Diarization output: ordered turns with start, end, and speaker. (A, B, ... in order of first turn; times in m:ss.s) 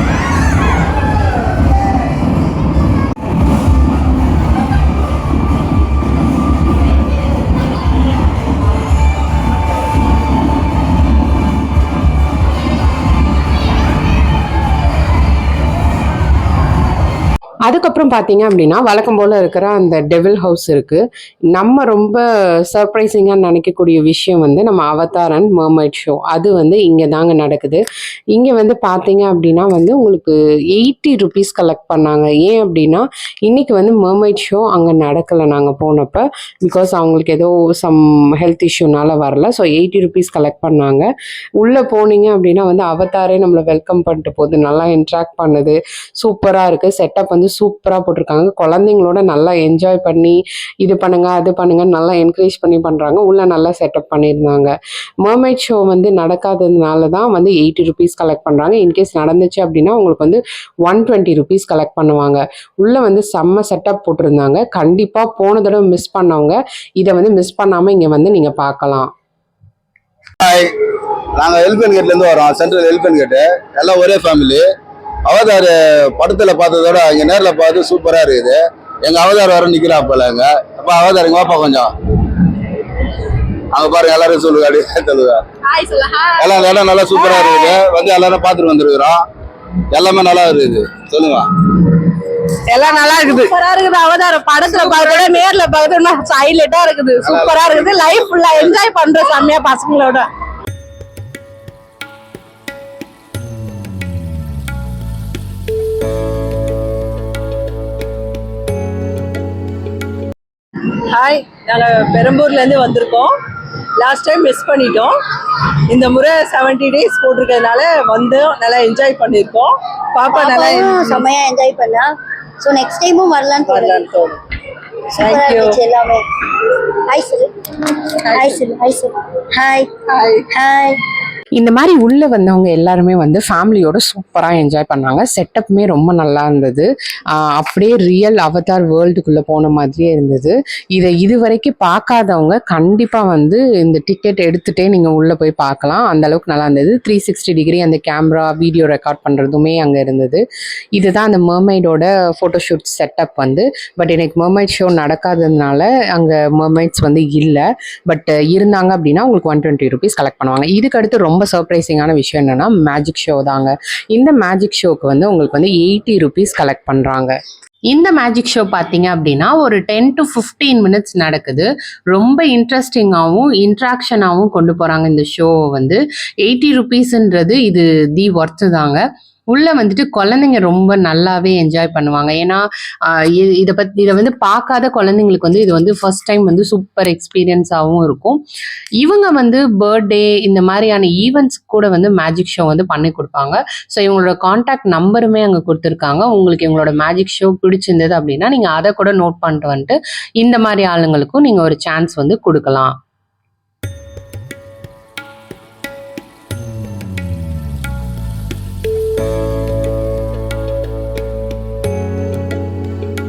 0:17.7-0:41.1 A
0:41.6-1:09.1 A
1:10.4-1:10.7 B
1:11.4-1:14.6 B
1:15.3-1:21.9 B
1:23.7-1:25.4 B
1:25.8-1:26.2 C
1:26.4-1:29.2 B
1:29.9-1:31.5 B
1:32.7-1:40.3 D
1:32.9-1:35.4 C
1:37.2-1:37.8 B
1:51.1-1:53.3 C
1:54.0-1:55.1 C
1:55.9-2:01.2 C
2:00.3-2:04.1 E
2:03.7-2:04.4 C
2:05.1-2:11.0 E
2:05.2-2:05.8 C
2:11.6-2:30.4 A
2:31.0-2:47.4 A
2:47.9-3:08.4 A
3:09.0-3:23.0 A